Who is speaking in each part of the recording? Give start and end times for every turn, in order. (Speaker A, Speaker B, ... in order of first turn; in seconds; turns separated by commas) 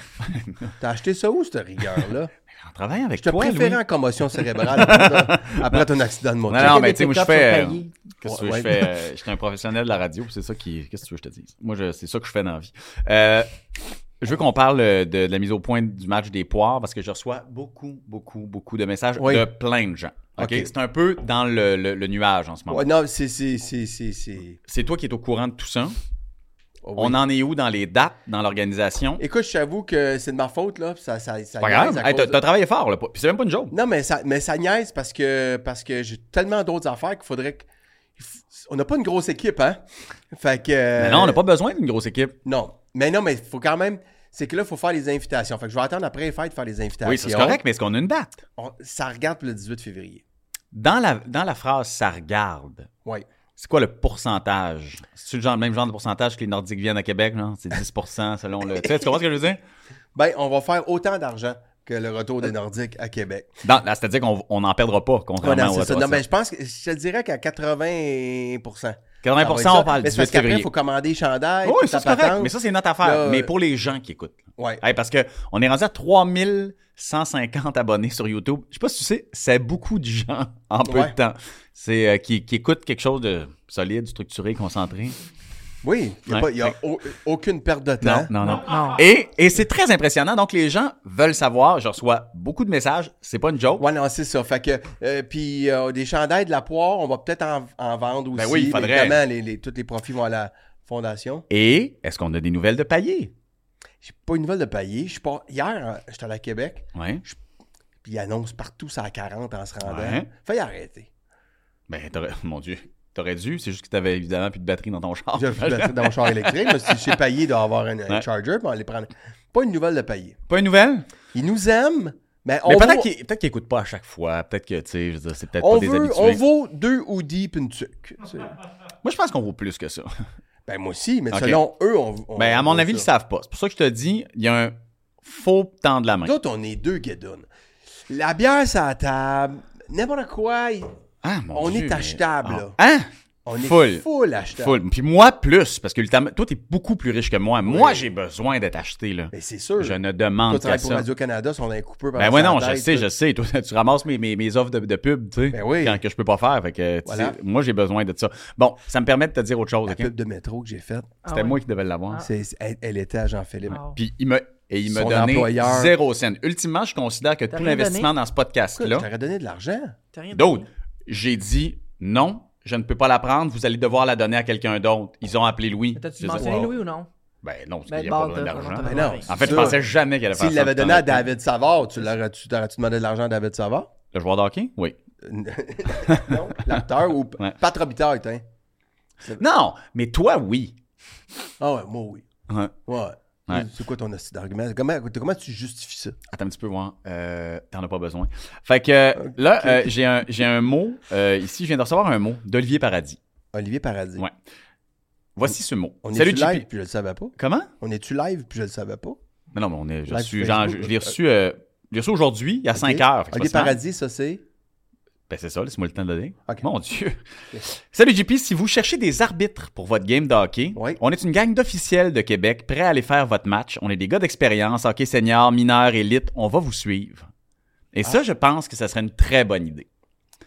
Speaker A: 0.2-0.7, Speaker B: 0.8-2.3, Speaker A: 2.6-3.8, Speaker B: 3.2-6.9, Speaker A: 4.4-5.8, Speaker A: 6.5-13.5, Speaker C: 6.5-8.0, Speaker B: 8.2-8.8, Speaker A: 14.2-22.9, Speaker B: 19.2-19.5, Speaker B: 20.4-20.7, Speaker B: 22.7-24.6, Speaker A: 24.7-26.0, Speaker B: 26.8-27.2, Speaker A: 27.0-29.2, Speaker B: 29.2-32.4, Speaker A: 31.6-33.7, Speaker B: 33.7-41.4, Speaker A: 41.0-42.4, Speaker B: 42.5-47.6, Speaker A: 47.0-48.4, Speaker B: 48.6-50.2, Speaker A: 50.7-52.9, Speaker A: 53.6-59.6, Speaker B: 60.1-63.5, Speaker A: 63.6-66.2, Speaker B: 65.4-73.5, Speaker A: 69.2-70.7, Speaker A: 71.6-85.2, Speaker B: 74.6-74.8, Speaker B: 80.8-81.2, Speaker B: 85.8-88.3, Speaker A: 86.3-86.7, Speaker A: 88.0-93.8, Speaker C: 88.5-89.0, Speaker B: 93.8-101.5, Speaker A: 98.3-99.2, Speaker A: 101.5-103.3, Speaker B: 104.0-107.4, Speaker A: 107.0-107.2, Speaker B: 108.0-111.1, Speaker A: 109.8-110.3, Speaker A: 111.9-117.0, Speaker B: 115.3-120.4, Speaker A: 120.5-121.1, Speaker B: 121.3-123.1, Speaker A: 122.7-126.4, Speaker B: 125.6-128.6, Speaker A: 129.0-130.1, Speaker B: 130.7-133.1, Speaker A: 131.3-131.6, Speaker A: 132.4-136.3, Speaker B: 136.2-137.5, Speaker B: 138.1-140.9, Speaker A: 141.2-151.1, Speaker B: 141.5-142.8, Speaker B: 143.5-144.8, Speaker B: 147.7-148.1, Speaker B: 149.3-153.1, Speaker A: 152.2-160.1, Speaker B: 155.5-156.0, Speaker B: 157.1-157.4, Speaker B: 159.9-161.2, Speaker C: 161.2-162.3, Speaker A: 161.3-162.2, Speaker B: 162.2-163.8, Speaker C: 163.7-164.0, Speaker A: 163.7-169.1, Speaker B: 164.9-165.9, Speaker C: 167.5-168.1, Speaker B: 168.8-170.0, Speaker C: 170.1-170.7, Speaker A: 170.3-176.7, Speaker C: 175.9-177.1, Speaker B: 176.3-176.7, Speaker A: 177.4-181.3, Speaker C: 177.9-179.8, Speaker B: 178.8-183.9, Speaker A: 184.1-185.0, Speaker B: 185.2-188.4, Speaker A: 186.1-186.7, Speaker A: 189.4-190.8, Speaker B: 191.6-192.3, Speaker A: 192.5-192.8, Speaker B: 192.9-196.2, Speaker A: 196.3-203.2, Speaker B: 199.2-199.9, Speaker B: 203.5-204.2, Speaker A: 205.4-206.7, Speaker B: 206.0-209.2, Speaker A: 207.4-207.7, Speaker A: 209.5-213.8, Speaker B: 210.1-211.1, Speaker B: 212.8-214.4, Speaker A: 215.3-227.3, Speaker A: 227.9-229.9